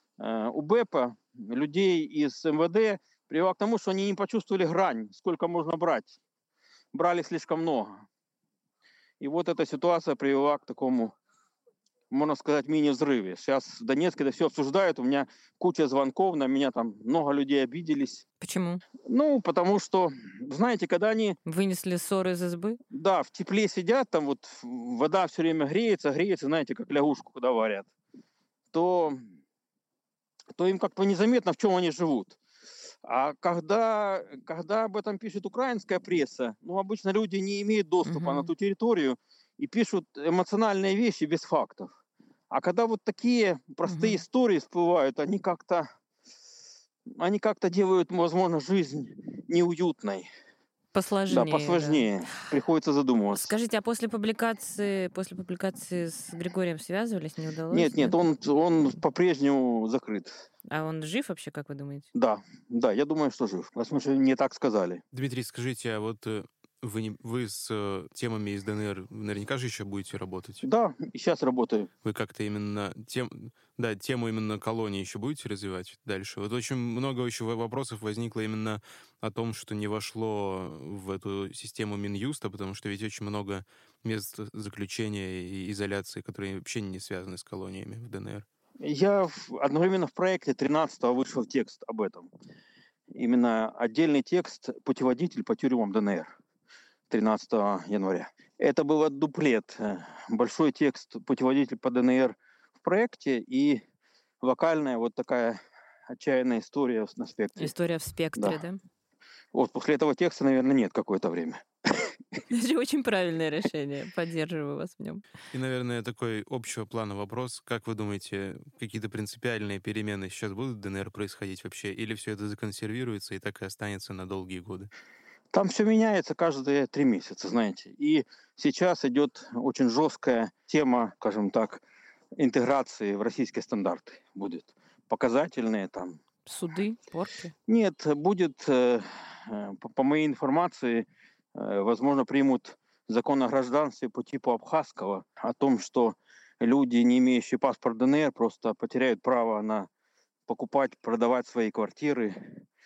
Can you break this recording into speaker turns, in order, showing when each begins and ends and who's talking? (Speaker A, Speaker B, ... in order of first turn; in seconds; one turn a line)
Speaker A: 0.2-6.1
Speaker A: 6.9-8.0
Speaker A: 9.2-11.1
Speaker A: 12.1-18.2
Speaker B: 18.4-18.8
Speaker A: 19.1-21.4
Speaker B: 21.4-22.8
Speaker A: 22.9-27.9
Speaker A: 28.7-29.2
Speaker A: 30.5-32.4
Speaker A: 33.0-41.9
Speaker B: 38.0-38.5
Speaker A: 42.5-45.9
Speaker B: 43.9-44.2
Speaker A: 47.1-50.3
Speaker B: 50.9-52.3
Speaker A: 51.3-53.5
Speaker B: 53.3-58.2
Speaker A: 57.7-60.3
Speaker B: 60.7-62.1
Speaker A: 62.1-65.0
Speaker C: 65.1-70.6
Speaker A: 70.6-71.9
Speaker C: 72.0-88.5
Speaker A: 88.8-92.3
Speaker A: 93.1-96.3
Speaker A: 97.1-103.8
Speaker A: 104.4-107.7
Speaker B: 107.6-108.8
Speaker A: 109.5-112.1
Speaker B: 112.5-115.2
Speaker C: 115.5-124.9
Speaker A: 125.5-131.8
Speaker A: 132.4-136.2
Speaker B: 136.4-137.5
Speaker A: 137.7-149.9
Speaker A: 150.5-152.6